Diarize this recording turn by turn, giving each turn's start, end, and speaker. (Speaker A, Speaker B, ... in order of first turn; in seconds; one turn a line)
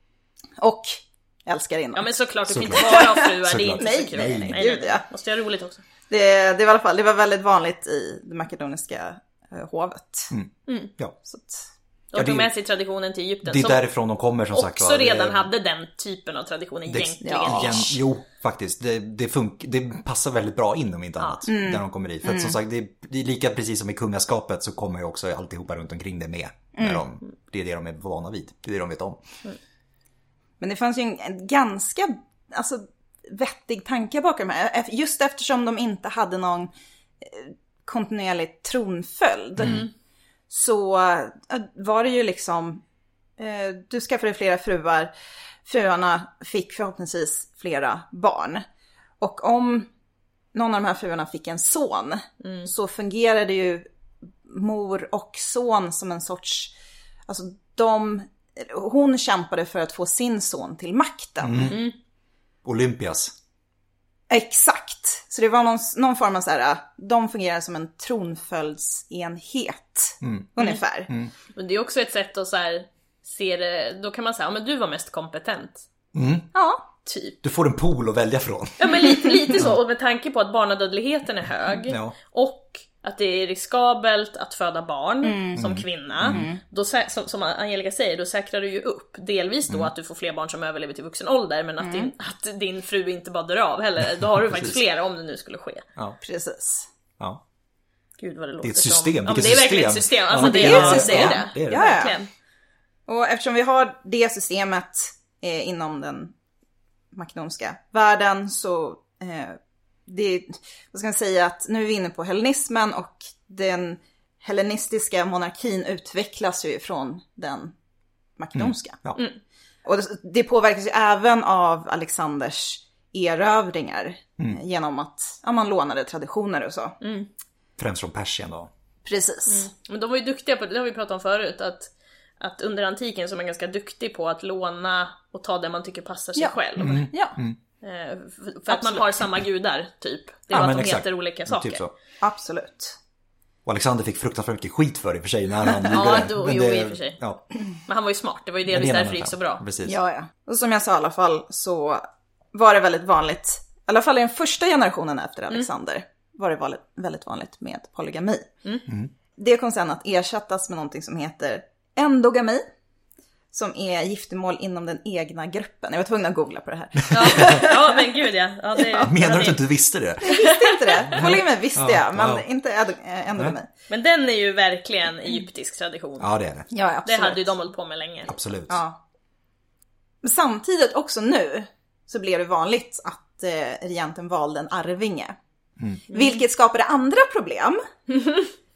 Speaker A: 0.6-2.1
Speaker B: 1.9-5.8
Speaker C: 2.5-4.6
Speaker A: 2.7-5.0
Speaker A: 6.1-10.3
Speaker C: 10.3-11.2
Speaker A: 11.2-11.7
Speaker B: 12.1-13.8
Speaker C: 12.2-12.5
Speaker C: 13.4-15.5
Speaker B: 14.5-18.0
Speaker C: 16.9-29.2
Speaker A: 17.2-17.9
Speaker A: 21.5-22.6
Speaker A: 26.7-27.0
Speaker A: 30.6-39.9
Speaker B: 39.6-39.9
Speaker A: 40.5-42.8
Speaker A: 43.4-45.1
Speaker A: 45.6-48.6
Speaker A: 49.2-49.9
Speaker A: 50.5-53.9
Speaker B: 52.4-52.7
Speaker A: 54.4-56.7
Speaker A: 57.3-61.8
Speaker C: 61.4-61.8
Speaker B: 61.7-61.9
Speaker C: 62.6-63.3
Speaker A: 64.3-71.1
Speaker C: 70.2-70.5
Speaker B: 71.5-75.8
Speaker C: 76.1-76.5
Speaker A: 76.5-76.8
Speaker B: 77.0-77.4
Speaker C: 77.4-79.7
Speaker B: 78.8-95.8
Speaker C: 81.9-82.2
Speaker A: 85.2-85.6
Speaker C: 85.5-86.5
Speaker A: 86.2-86.6
Speaker A: 91.8-92.1
Speaker C: 94.5-94.8
Speaker A: 96.2-96.9
Speaker B: 98.2-102.3
Speaker C: 98.6-102.0
Speaker A: 100.3-102.2
Speaker A: 103.1-106.3
Speaker A: 107.1-117.7
Speaker A: 118.4-119.0
Speaker C: 118.5-119.2
Speaker A: 119.8-127.0
Speaker B: 127.0-127.3
Speaker C: 127.8-128.7
Speaker A: 129.0-129.7
Speaker B: 129.5-137.1
Speaker C: 136.8-137.6
Speaker A: 137.1-137.3
Speaker B: 137.8-141.8
Speaker A: 138.7-139.1
Speaker C: 140.5-141.9
Speaker A: 142.2-143.0
Speaker C: 143.7-147.4
Speaker B: 145.9-147.2
Speaker B: 147.8-149.6
Speaker C: 148.7-150.0
Speaker A: 149.8-158.5
Speaker A: 159.3-162.7
Speaker A: 163.5-168.2
Speaker C: 167.0-167.6
Speaker B: 167.1-169.6
Speaker A: 168.8-169.2
Speaker C: 169.0-170.4
Speaker A: 170.2-173.7
Speaker B: 170.2-171.2
Speaker C: 171.1-172.4
Speaker B: 173.9-176.3
Speaker C: 176.2-176.7
Speaker A: 176.7-177.5
Speaker B: 177.0-178.3
Speaker C: 178.3-178.8
Speaker A: 178.7-179.0
Speaker A: 180.2-185.3
Speaker A: 186.1-187.8
Speaker B: 186.1-186.4